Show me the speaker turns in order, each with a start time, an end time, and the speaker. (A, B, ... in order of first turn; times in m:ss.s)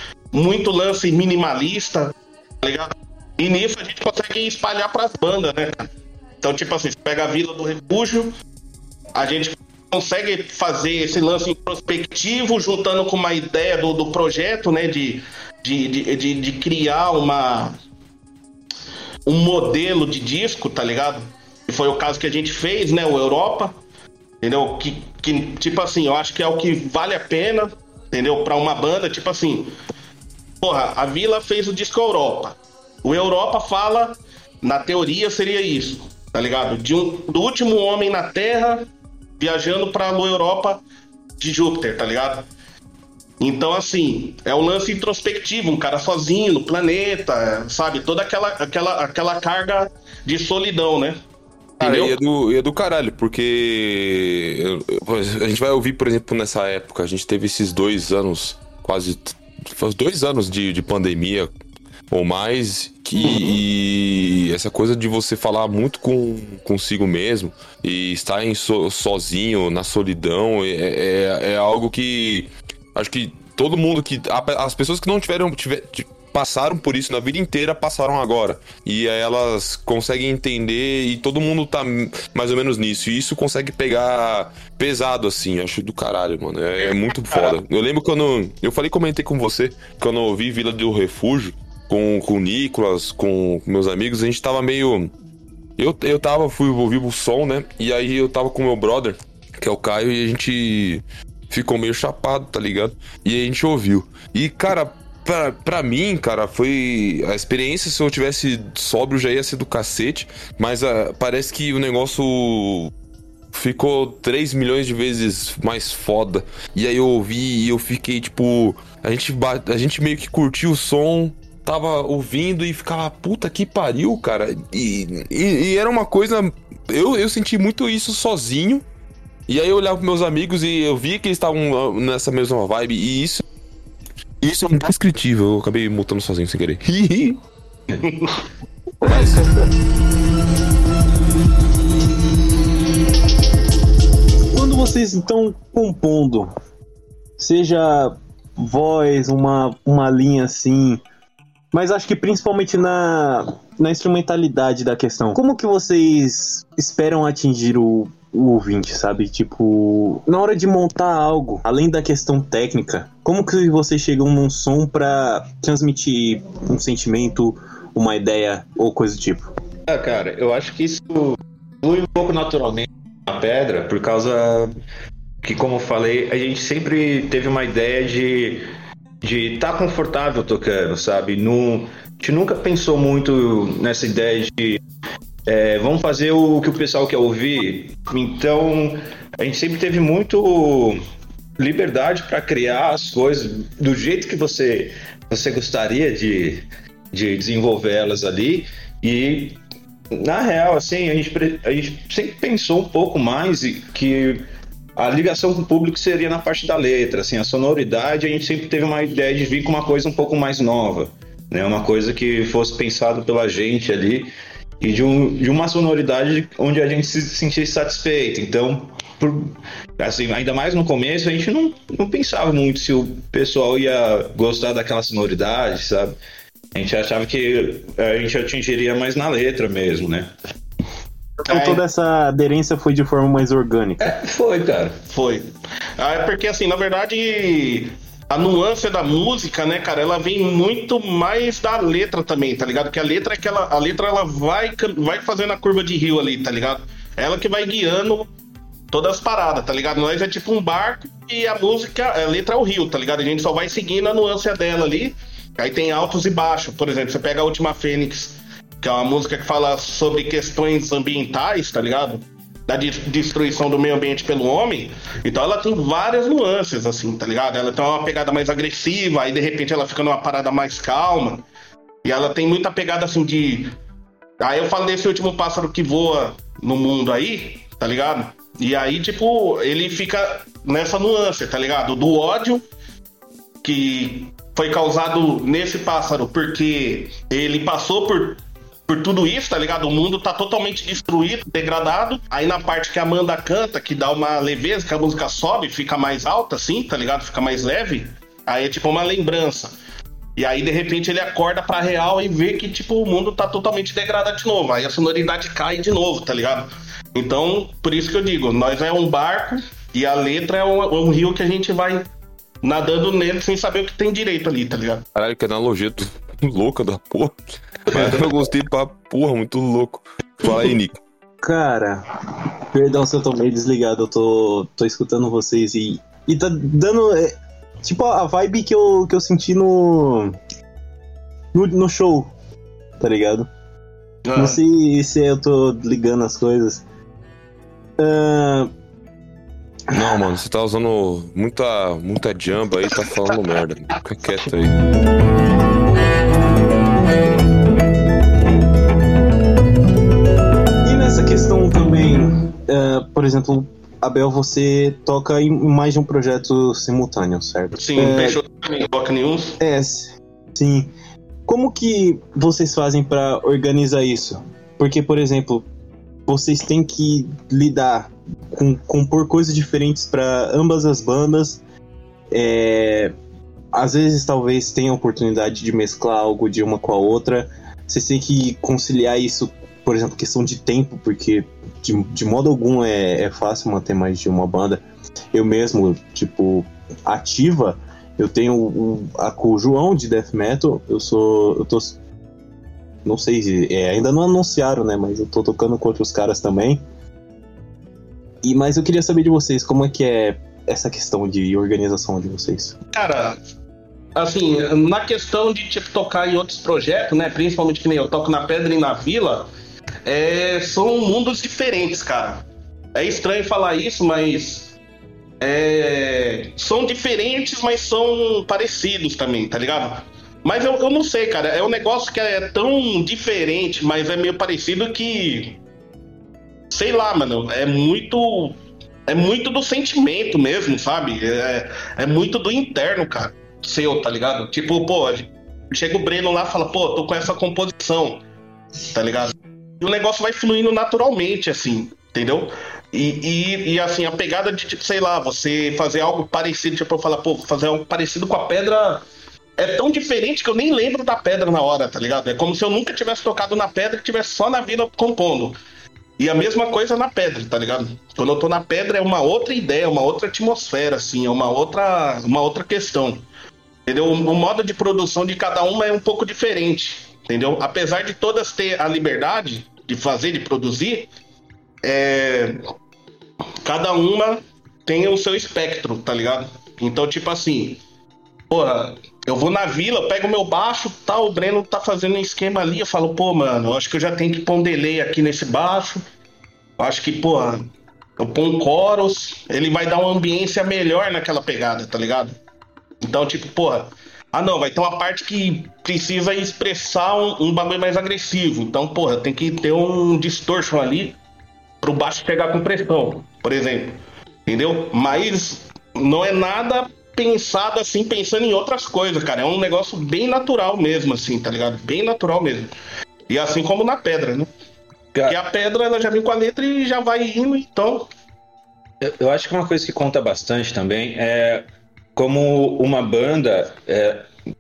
0:00.3-0:05.9 A
0:06.4-0:08.3 A
0:09.2-0:17.8 A
0:19.3-0:23.8 A
0:24.4-0:29.7 A
0:30.6-0:38.9 A
0:39.4-0:40.8 A
0:41.4-0:42.5 A
0:43.4-0:51.2 A
0:51.8-0:52.2 A
0:51.8-1:01.5 B
1:02.1-1:35.1 B
1:03.2-1:03.6 A
1:26.8-1:27.5 A
1:35.8-1:52.9 B
1:53.5-2:08.8 B
2:09.5-2:13.4 B
2:14.4-2:17.4 B
2:18.0-2:18.4 A
2:19.1-2:19.3 B
2:24.5-2:26.5 C
2:27.4-2:31.0 C
2:31.7-2:49.5 C
2:49.9-2:54.7 D
2:55.4-2:58.7 D
2:59.2-3:04.8 D
3:05.5-3:11.0 D
3:11.6-3:19.6 D
3:20.1-3:24.4 D
3:25.0-3:46.2 D
3:46.8-3:50.3 D
3:51.4-3:54.1 C
3:51.5-3:51.8 A
3:54.0-3:55.0 D
3:55.1-4:08.3 A
4:08.9-4:31.4 A
4:32.0-4:33.7 A
4:34.4-4:42.6 A
4:43.6-4:59.7 A
5:00.4-5:12.1 A
5:12.6-5:15.0 A
5:15.2-5:21.0 B
5:17.9-5:18.2 A
5:21.4-5:22.0 C
5:22.7-5:30.4 C
5:31.5-5:32.3 C
5:33.0-5:33.5 C
5:34.2-5:34.6 A
5:34.4-5:36.8 C
5:38.0-5:38.7 C
5:39.9-5:40.2 C
5:39.9-5:44.8 B
5:50.8-5:58.4 C
5:57.8-5:59.6 A
5:59.6-6:00.9 C
6:01.5-6:05.7 C
6:06.3-6:11.6 C
6:12.3-6:13.1 C
6:13.7-6:32.0 C
6:33.0-6:36.8 C
6:38.4-6:42.8 C
6:42.9-6:43.4 A
6:44.2-6:49.5 A
6:50.1-6:54.7 A
6:55.4-7:05.6 A
7:06.7-7:18.2 A
7:18.9-7:29.0 A
7:29.6-7:35.6 A
7:36.2-7:43.2 A
7:43.9-7:51.1 A
7:51.8-7:52.7 A
7:53.6-7:57.8 A
7:58.5-8:06.0 A
8:06.8-8:07.7 A
8:08.2-8:12.3 A
8:13.0-8:21.2 A
8:21.8-8:32.7 A
8:33.3-8:34.5 A
8:35.3-8:38.1 A
8:39.0-8:41.6 D
8:42.2-8:44.3 D